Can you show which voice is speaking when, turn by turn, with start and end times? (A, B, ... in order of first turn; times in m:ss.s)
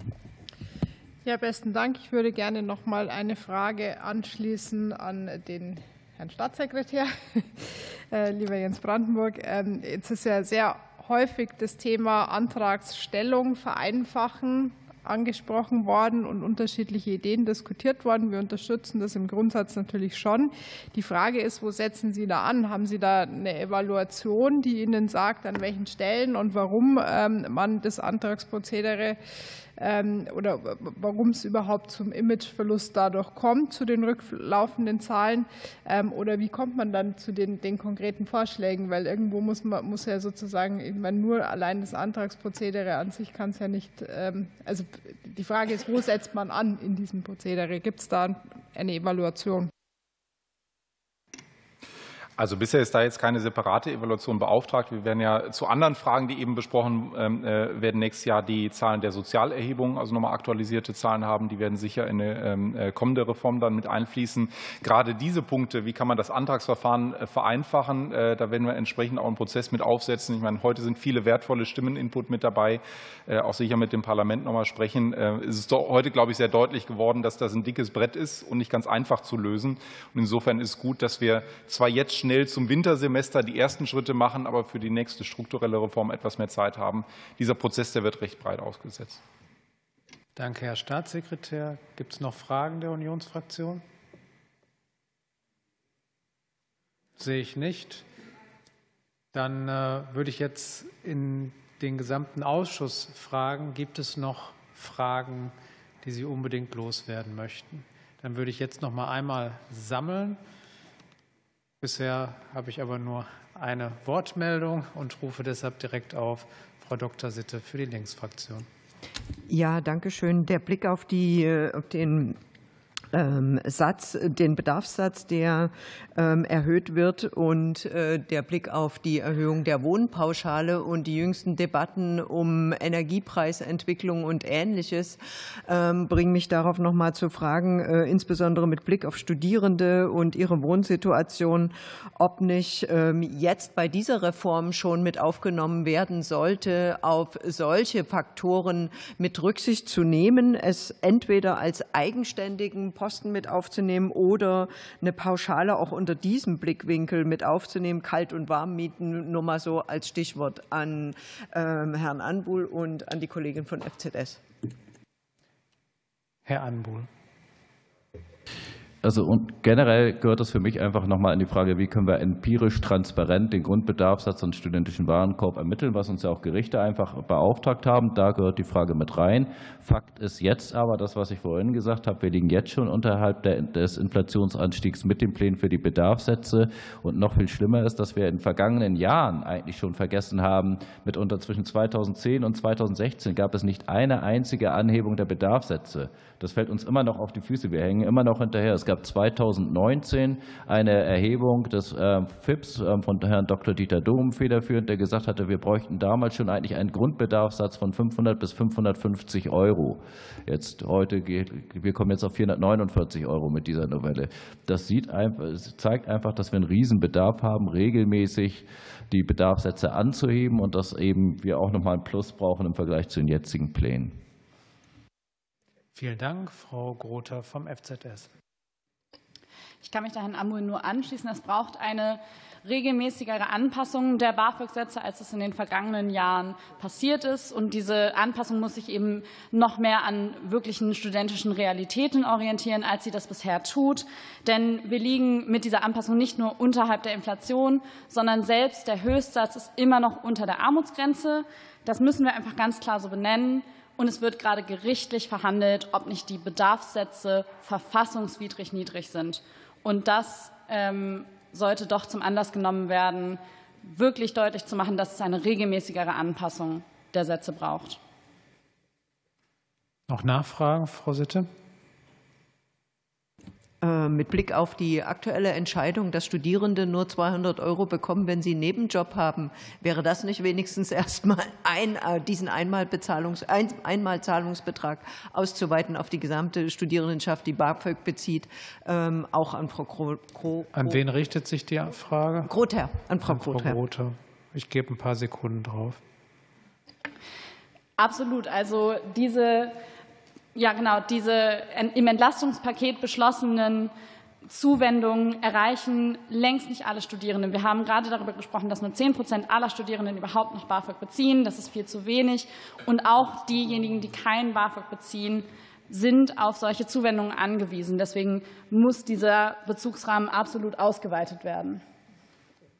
0:01.2-0:29.2 A
0:29.8-0:49.7 A
0:52.4-1:29.2 B
1:30.4-1:33.8 C
1:37.2-1:38.0 C
1:39.3-1:50.4 C
1:51.8-1:58.7 C
1:59.5-2:02.4 D
2:03.1-2:44.4 D
2:46.5-2:47.1 C
2:49.0-3:44.2 E
3:46.0-3:48.3 C
3:49.8-4:28.0 F
4:30.1-4:31.5 C
4:33.8-4:51.0 D
4:50.7-4:52.5 C
4:52.4-4:53.8 D
4:53.2-4:56.0 C
4:58.0-4:59.8 F
5:00.6-5:03.9 F
5:04.5-5:21.8 F